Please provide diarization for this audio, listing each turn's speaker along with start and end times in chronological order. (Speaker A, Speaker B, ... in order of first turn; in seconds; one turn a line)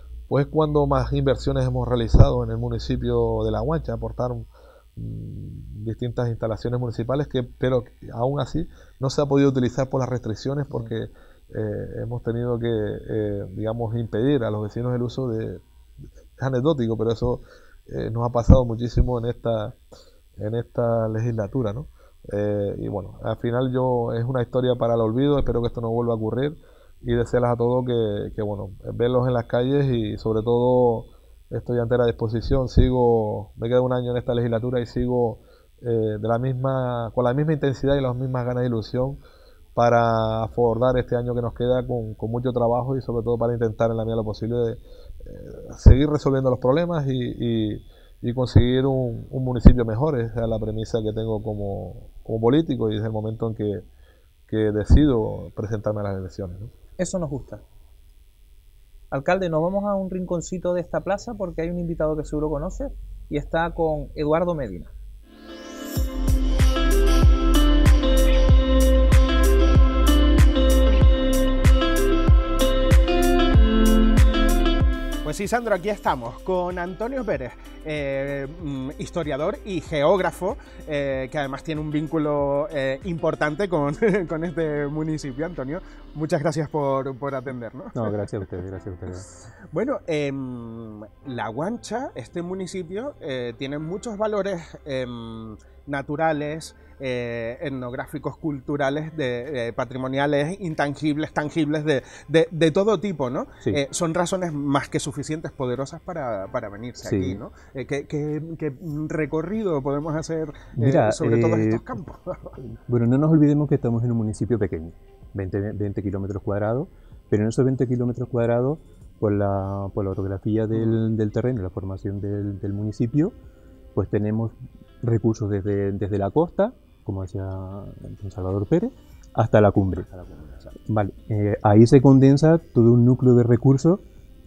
Speaker A: 0.3-15.6
Speaker A: 16.4-19.8
Speaker A: 20.4-39.2
Speaker A: 39.7-53.9
Speaker A: 54.5-56.7
Speaker B: 57.0-57.6
Speaker B: 59.1-64.9
Speaker C: 75.2-88.2
Speaker D: 87.9-89.2
Speaker C: 89.7-112.5
Speaker D: 107.0-107.4
Speaker D: 110.8-111.9
Speaker D: 112.9-123.3
Speaker D: 123.9-130.1
Speaker C: 130.0-130.8
Speaker D: 130.8-134.0